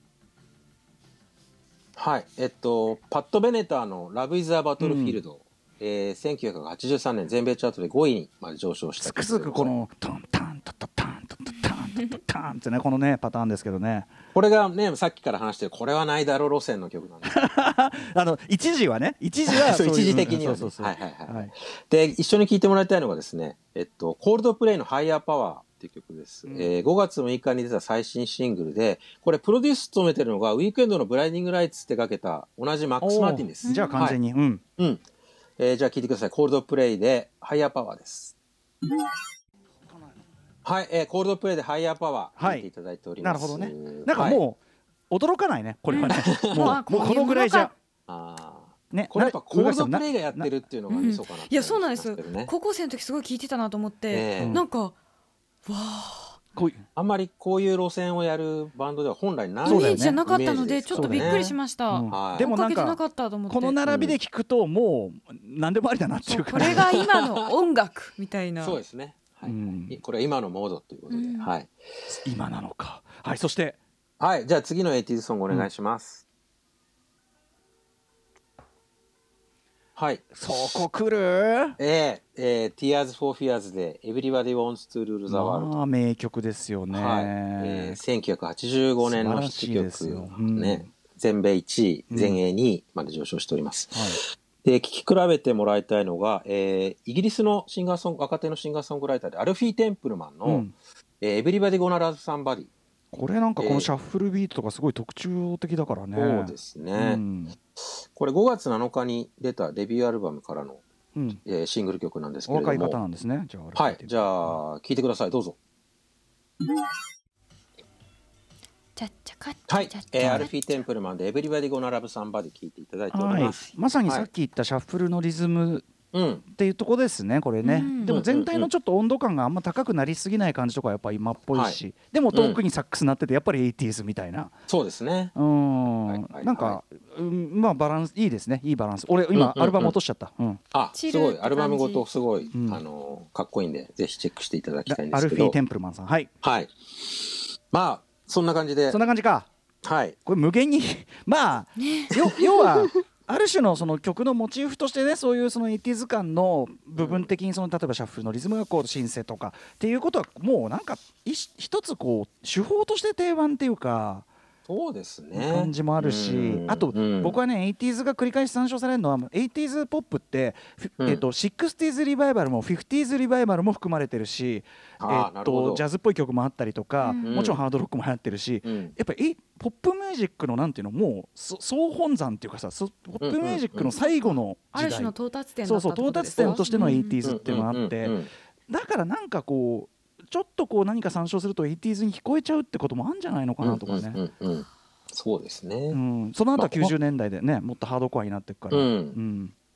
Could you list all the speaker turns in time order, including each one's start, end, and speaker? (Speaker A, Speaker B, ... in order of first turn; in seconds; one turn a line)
Speaker A: 2.0-9.7
Speaker B: 4.8-5.2
Speaker B: 9.0-14.1
Speaker A: 14.3-17.5
Speaker B: 17.3-21.5
Speaker A: 19.5-34.2
Speaker B: 26.5-26.7
Speaker B: 33.0-34.6
Speaker C: 33.6-34.1
Speaker A: 34.8-35.0
Speaker A: 35.6-38.3
Speaker A: 40.6-44.4
Speaker B: 42.4-42.7
Speaker B: 43.2-44.6
Speaker B: 45.1-47.7
Speaker C: 45.9-47.7
Speaker A: 46.1-46.8
Speaker A: 48.1-52.5
Speaker B: 48.9-50.5
Speaker C: 50.9-55.0
Speaker A: 54.1-54.6
Speaker B: 54.4-54.6
Speaker C: 55.6-56.4
Speaker B: 56.5-56.8
Speaker A: 57.0-61.5
Speaker C: 59.6-63.8
Speaker B: 59.7-60.2
Speaker B: 60.9-66.9
Speaker A: 62.1-62.5
Speaker A: 63.9-64.2
Speaker C: 66.3-68.8
Speaker A: 66.6-67.5
Speaker A: 68.6-71.7
Speaker B: 69.5-70.0
Speaker C: 71.1-71.5
Speaker B: 72.1-73.8
Speaker A: 74.2-76.2
Speaker A: 80.0-80.8
Speaker B: 80.3-81.8
Speaker A: 81.8-85.8
Speaker B: 85.3-88.0
Speaker A: 86.9-102.7
Speaker B: 89.0-90.9
Speaker B: 92.1-92.4
Speaker B: 93.9-94.2
Speaker B: 100.5-100.7
Speaker B: 103.1-107.6
Speaker A: 103.6-103.9
Speaker A: 106.1-107.2
Speaker A: 107.8-110.8
Speaker A: 111.4-113.0
Speaker B: 112.5-114.6
Speaker A: 113.8-115.6
Speaker C: 119.0-120.8
Speaker A: 119.7-124.3
Speaker B: 120.2-120.5
Speaker B: 123.1-125.9
Speaker A: 126.1-126.4
Speaker B: 126.5-134.5
Speaker C: 127.6-128.2
Speaker A: 128.0-128.7
Speaker A: 131.5-131.8
Speaker A: 132.3-132.6
Speaker A: 134.7-135.3
Speaker B: 135.3-140.6
Speaker A: 136.1-136.8
Speaker A: 139.3-140.0
Speaker A: 140.7-145.6
Speaker C: 140.9-142.1
Speaker B: 142.5-142.8
Speaker B: 144.9-146.3
Speaker A: 146.4-149.0
Speaker B: 148.9-149.5
Speaker A: 149.8-150.2
Speaker B: 150.2-164.3
Speaker C: 151.8-152.1
Speaker A: 157.0-157.3
Speaker A: 164.7-167.4
Speaker B: 165.3-185.1
Speaker A: 175.0-175.8
Speaker C: 177.0-177.4
Speaker A: 177.2-177.6
Speaker A: 178.6-178.9
Speaker A: 183.2-183.9
Speaker C: 184.8-187.2
Speaker B: 185.7-194.2
Speaker A: 186.4-188.3
Speaker A: 193.6-196.0
Speaker B: 195.9-199.5
Speaker A: 196.6-196.9
Speaker A: 198.7-199.2